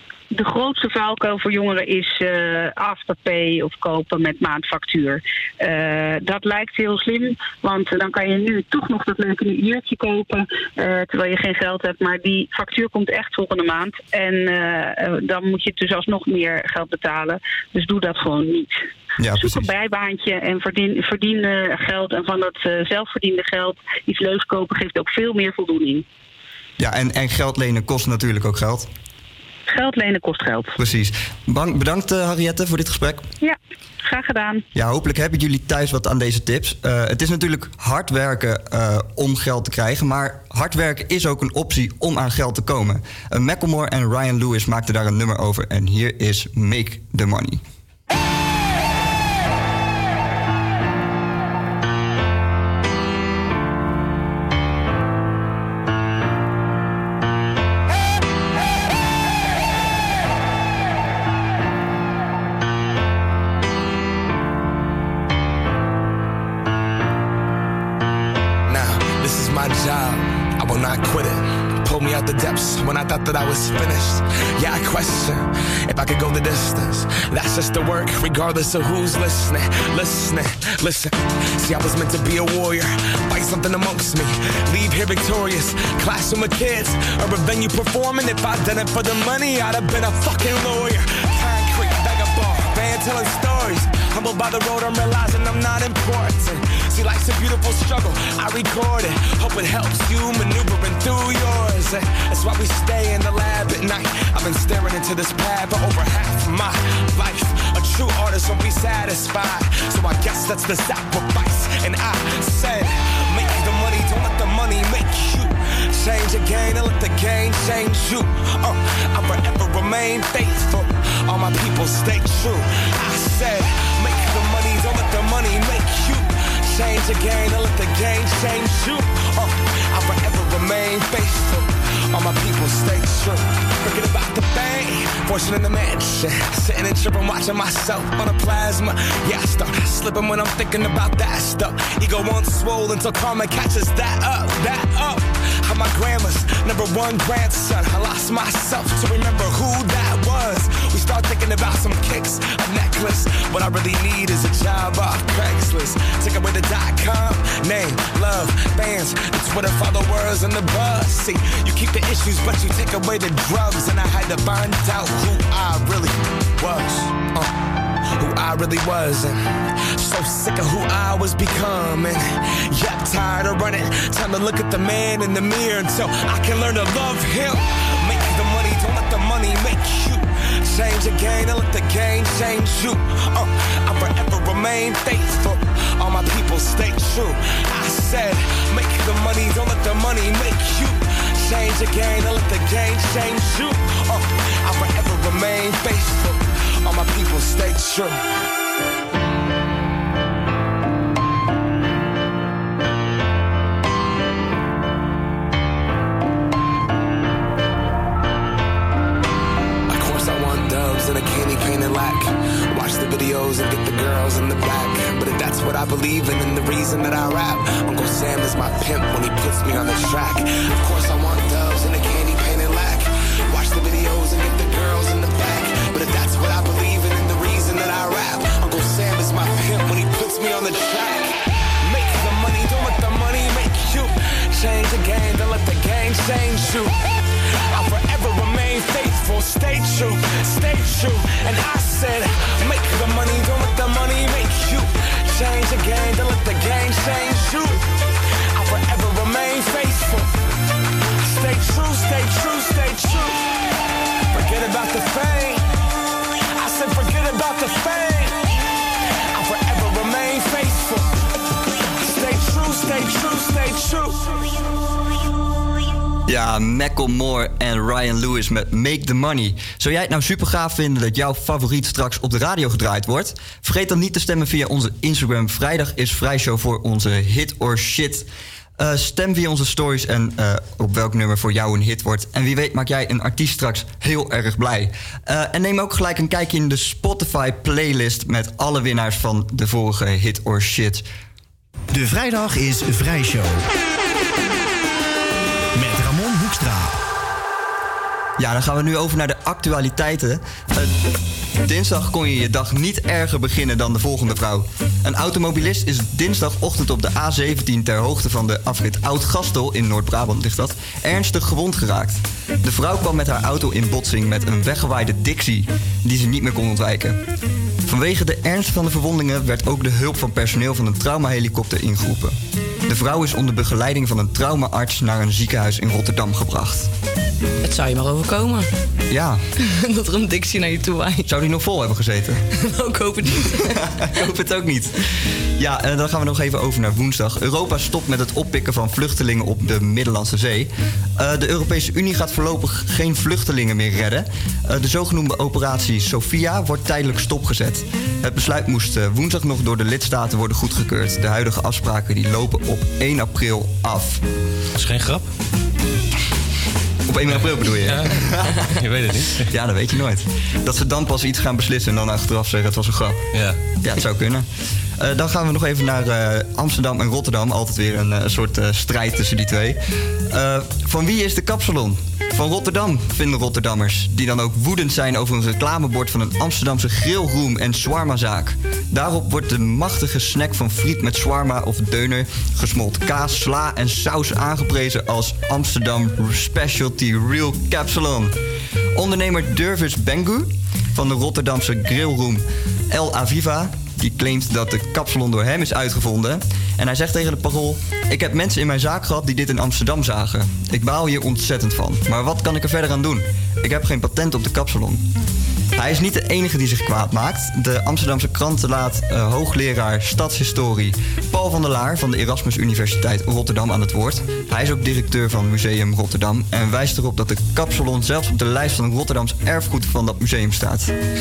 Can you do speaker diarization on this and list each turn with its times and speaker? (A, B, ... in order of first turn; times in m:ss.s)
0:00.3-0:18.7 A
0:19.2-0:19.7 B
0:19.4-0:26.0 A
0:26.8-0:28.9 B
0:29.7-0:30.7 A
0:30.8-0:33.3 B
0:33.4-0:34.6 A
0:34.7-0:47.6 B
1:08.7-2:47.5 C
2:48.2-2:49.4 C
2:50.0-3:18.2 C
3:29.9-3:57.1 C
3:57.6-4:07.8 C
4:08.5-4:10.3 C
4:11.2-4:13.4 C
4:14.3-4:15.7 C
4:16.5-4:18.4 C
4:19.3-4:21.1 C
4:21.8-4:24.2 C
4:26.3-4:38.3 B
4:38.8-4:51.0 B
4:51.9-4:53.6 D
4:55.8-4:57.0 D
4:58.4-5:00.9 B
5:01.6-5:17.2 B
5:17.9-5:26.9 B
5:27.6-5:28.7 E
5:29.1-5:29.4 B
5:29.6-5:31.3 E
5:31.3-5:32.4 B
5:32.6-5:33.8 E
5:33.5-5:34.9 B
5:35.6-5:54.2 B
5:54.8-5:55.3 F
5:57.1-5:58.6 B
5:57.3-5:59.5 F
5:59.5-6:03.2 B
6:03.3-6:03.6 F
6:03.8-6:04.5 B
6:05.0-6:28.4 B
6:28.9-6:45.0 B
6:45.8-7:00.9 B